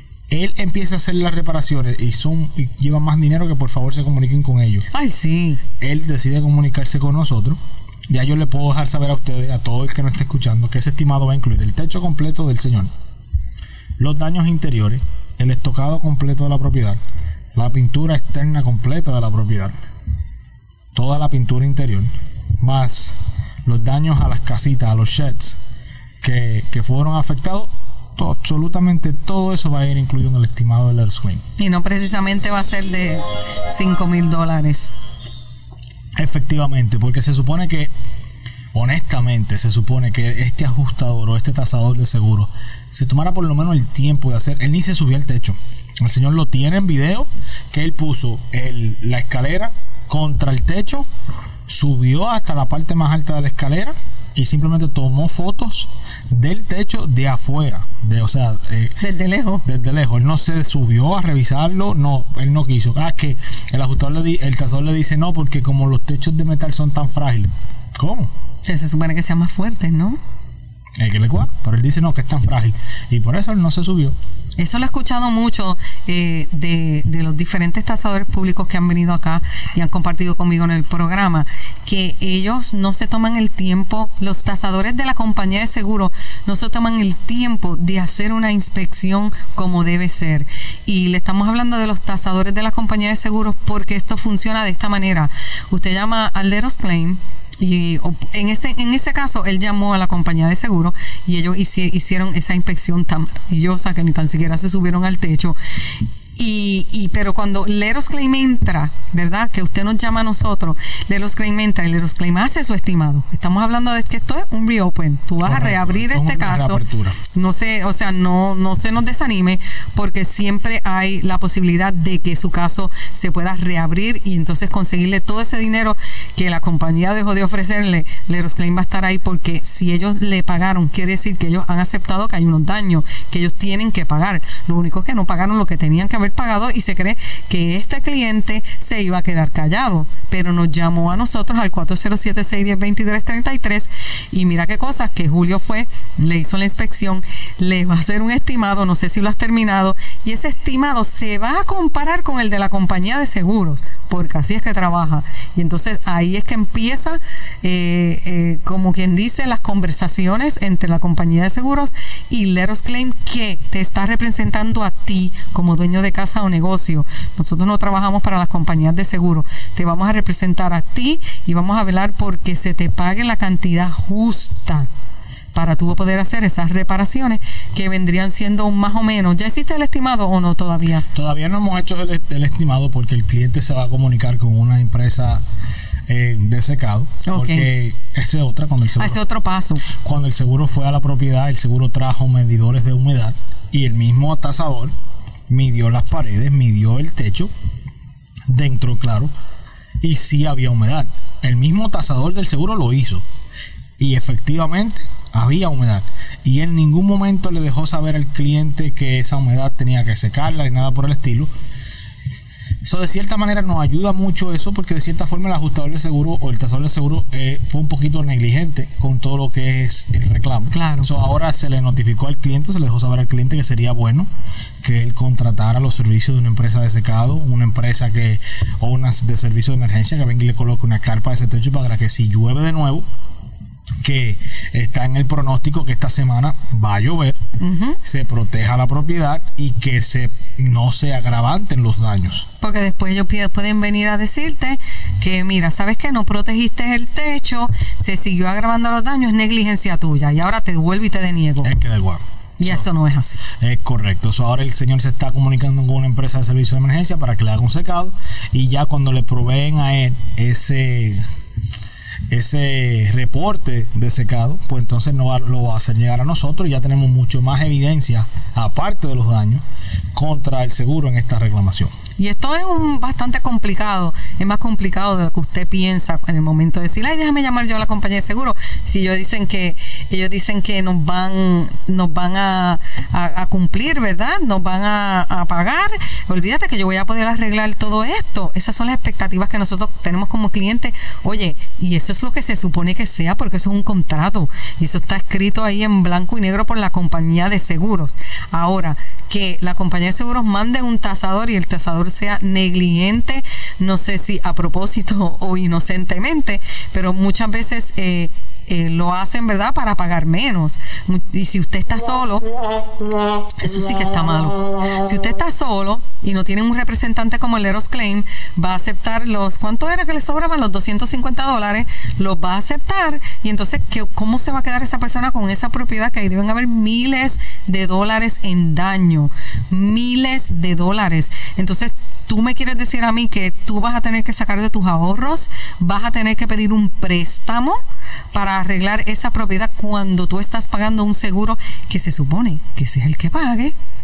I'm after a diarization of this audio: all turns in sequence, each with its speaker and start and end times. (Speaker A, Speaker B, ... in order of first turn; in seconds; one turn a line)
Speaker A: 0.3-4.8
Speaker B: 4.9-5.6
Speaker A: 5.8-7.6
Speaker A: 8.1-12.9
Speaker A: 14.0-17.0
Speaker A: 17.5-19.8
Speaker A: 20.9-25.6
Speaker A: 26.2-31.4
Speaker B: 31.6-35.0
Speaker A: 36.1-37.9
Speaker A: 38.7-51.1
Speaker A: 51.7-59.0
Speaker B: 59.0-59.6
Speaker A: 59.6-68.3
Speaker B: 68.6-70.2
Speaker A: 71.0-74.2
Speaker B: 74.6-105.6
Speaker B: 106.3-174.9
Speaker A: 115.4-117.2
Speaker B: 175.5-181.1
Speaker A: 181.1-185.4
Speaker A: 186.1-189.2
Speaker B: 187.2-187.7
Speaker B: 189.0-189.8
Speaker A: 189.9-194.9
Speaker A: 195.5-197.5
Speaker A: 198.5-199.3
Speaker A: 200.0-203.2
Speaker A: 204.0-211.5
Speaker A: 212.8-224.3
Speaker B: 220.7-221.1
Speaker A: 224.8-233.0
Speaker A: 234.0-237.4
Speaker B: 237.6-238.0
Speaker A: 238.0-242.5
Speaker B: 242.6-251.7
Speaker A: 251.6-252.8
Speaker B: 252.6-253.4
Speaker A: 253.6-261.2
Speaker A: 262.3-269.6
Speaker A: 270.1-271.9
Speaker B: 272.2-312.4
Speaker B: 313.6-337.8
Speaker B: 338.3-343.7